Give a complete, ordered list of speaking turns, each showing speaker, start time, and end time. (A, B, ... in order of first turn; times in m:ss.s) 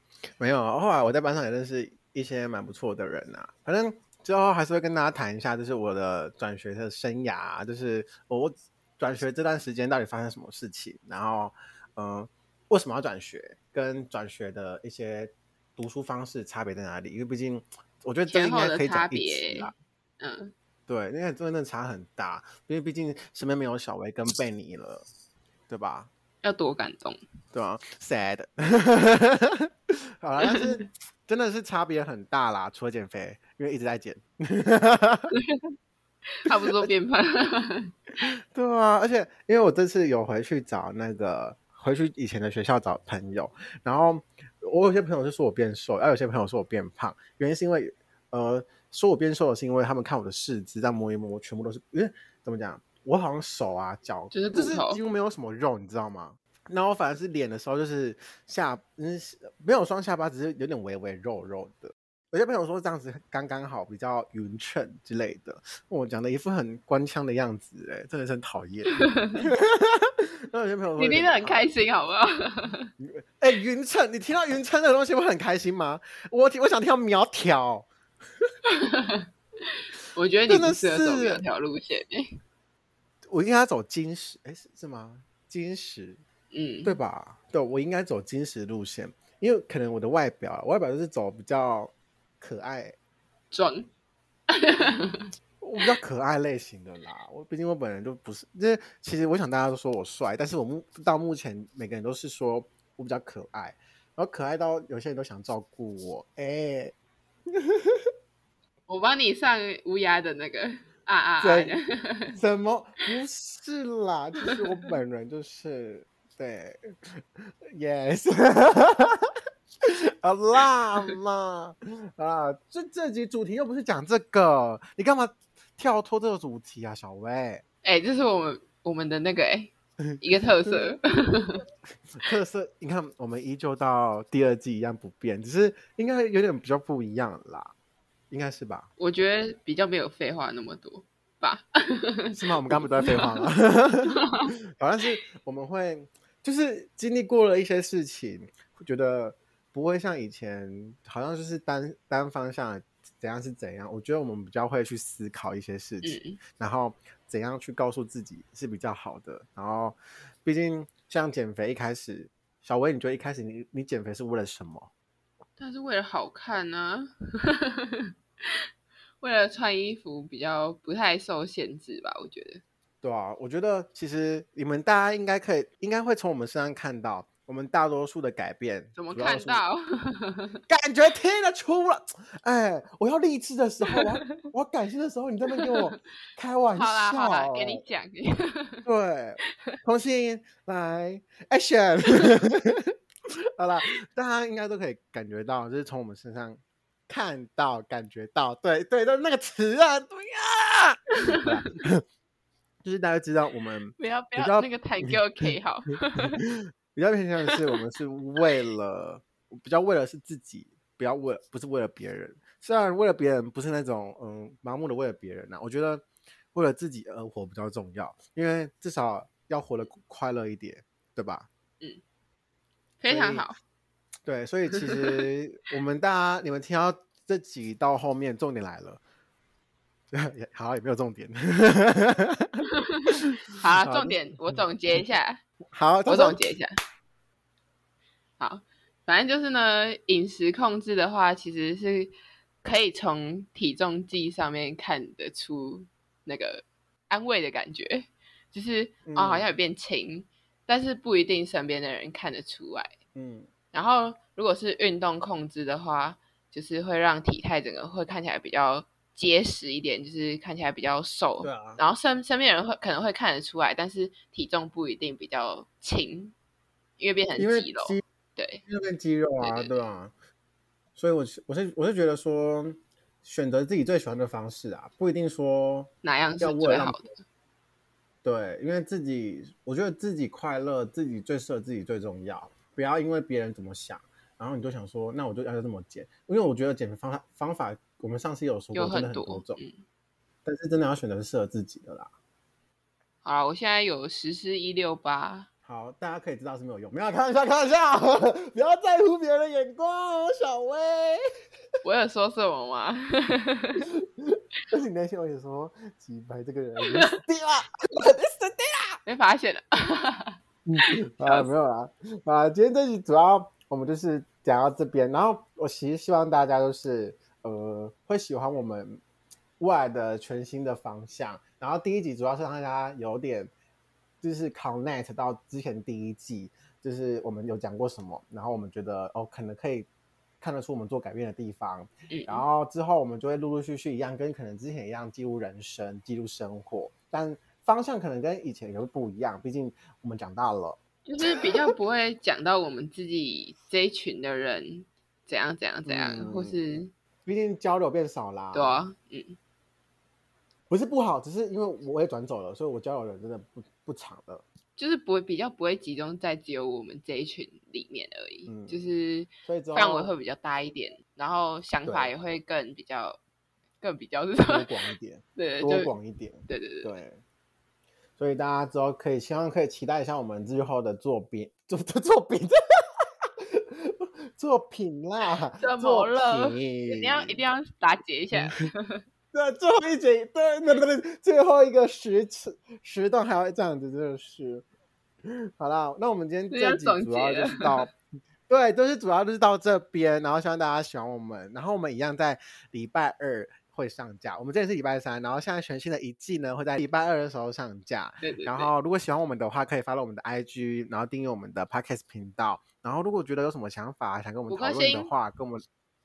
0:00.4-0:19.7 A
0:18.3-0:20.5 B
0:20.9-0:25.0 A
0:25.7-0:26.1 A
0:26.4-0:27.2 B
0:27.5-0:35.3 A
0:30.4-0:30.7 B
0:35.3-0:35.7 B
0:36.4-0:37.9 B
0:36.5-0:36.9 A
0:38.2-1:11.6 A
0:54.3-0:55.0 B
1:09.0-1:09.5 B
1:11.0-1:12.9 B
1:13.0-1:17.9 A
1:18.7-1:22.4 B
1:20.5-1:21.4 A
1:23.3-1:26.2 A
1:26.5-1:27.0 B
1:26.8-1:32.9 A
1:33.5-1:33.9 B
1:34.5-1:35.3 B
1:35.6-1:46.9 A
1:47.5-1:48.0 A
1:48.9-1:52.4 B
1:51.4-1:51.7 A
1:52.3-1:59.3 A
1:59.8-2:07.6 A
2:07.8-2:11.6 B
2:10.0-2:11.0 A
2:12.1-2:17.7 A
2:18.3-2:18.9 A
2:19.0-2:23.4 B
2:22.3-2:24.2 A
2:24.1-2:24.5 B
2:24.8-2:44.9 A
2:36.0-2:36.4 B
2:45.6-2:48.6 B
2:49.2-2:52.6 B
2:53.0-2:59.6 A
2:59.0-3:00.6 B
3:00.7-3:07.8 A
3:03.9-3:04.3 B
3:05.5-3:05.9 B
3:06.7-3:08.9 B
3:08.8-3:12.9 A
3:13.6-3:22.0 A
3:22.8-3:25.4 A
3:24.0-3:26.4 B
3:26.2-3:41.5 A
3:43.0-3:43.5 B
3:43.1-3:43.5 A
3:44.2-3:49.0 A
3:50.1-3:55.0 A
3:53.6-3:55.4 B
3:55.7-3:56.4 A
3:56.1-3:56.7 B
3:58.4-4:12.9 B
4:09.0-4:09.5 A
4:13.1-4:13.5 A
4:13.7-4:26.3 B
4:21.4-4:21.8 A
4:27.0-4:28.6 B
4:27.4-4:28.0 A
4:28.7-4:30.1 A
4:29.4-4:29.8 B
4:31.0-4:37.0 A
4:36.0-4:37.1 B
4:38.2-4:49.6 A
4:48.7-4:49.8 B
4:50.4-4:52.1 A
4:53.2-4:55.5 B
4:55.6-5:01.2 A
5:01.8-5:03.8 B
5:03.9-5:09.0 A
5:06.8-5:07.1 B
5:09.0-5:10.4 B
5:10.6-5:19.0 A
5:11.2-5:11.5 B
5:19.6-5:23.5 A
5:24.2-5:29.9 A
5:30.4-5:41.4 A
5:32.1-5:32.4 B
5:41.0-5:46.9 B
5:45.8-5:46.6 A
5:47.2-5:48.8 A
5:48.5-5:49.4 B
5:50.7-5:54.4 A
5:54.8-6:03.2 B
5:58.4-5:58.8 A
5:59.4-6:00.1 A
6:01.8-6:02.1 A
6:03.8-6:04.7 B
6:04.5-6:07.2 A
6:05.4-6:05.9 B
6:06.5-6:06.9 B
6:08.2-6:12.6 A
6:13.4-6:17.4 A
6:15.6-6:19.0 B
6:18.3-6:18.6 A
6:19.3-6:24.6 A
6:25.2-6:45.6 A
6:26.5-6:27.9 B
6:38.2-6:38.7 B
6:44.5-6:45.1 B